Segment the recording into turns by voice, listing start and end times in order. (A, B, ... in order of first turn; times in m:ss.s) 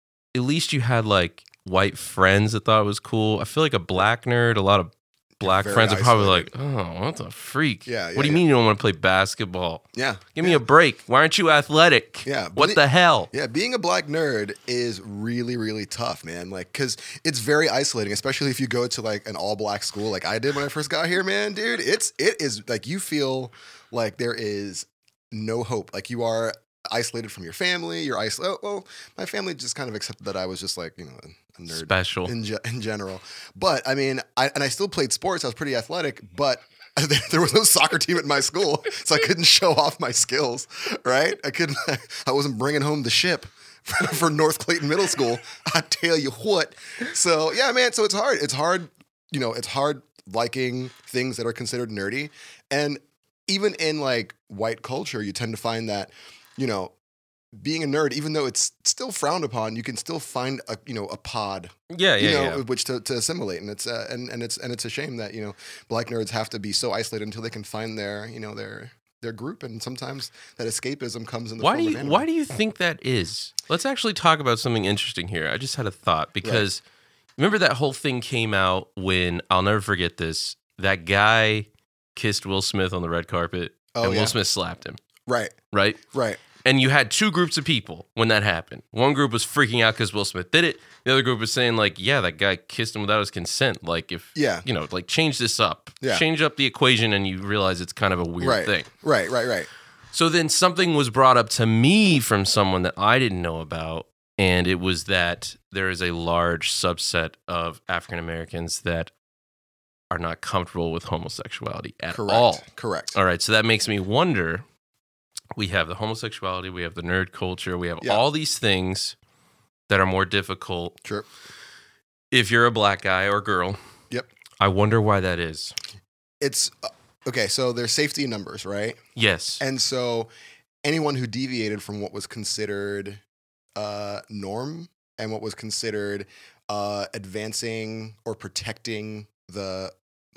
0:00.4-0:13.3 A
0:05.4-0:06.5 B
0:07.9-0:08.4 B
0:09.9-0:10.6 B
0:12.2-0:57.0 B
0:31.7-0:32.3 A
0:57.6-1:12.3 B
1:01.9-1:02.6 A
1:11.6-1:16.8 A
1:17.4-1:25.0 A
1:24.0-1:24.4 B
1:25.3-1:25.6 B
1:25.7-1:26.0 A
1:26.1-1:26.4 B
1:26.6-1:38.9 A
1:34.4-1:34.7 B
1:38.4-1:39.7 B
1:40.1-1:49.1 A
1:50.1-1:54.6 A
1:52.1-1:53.2 B
1:55.6-1:59.2 A
1:59.9-2:01.0 A
2:02.3-2:03.8 A
2:04.6-2:05.8 A
2:06.4-2:09.0 B
2:09.2-2:09.6 A
2:09.6-2:10.3 B
2:10.8-2:13.2 B
2:13.8-2:19.9 B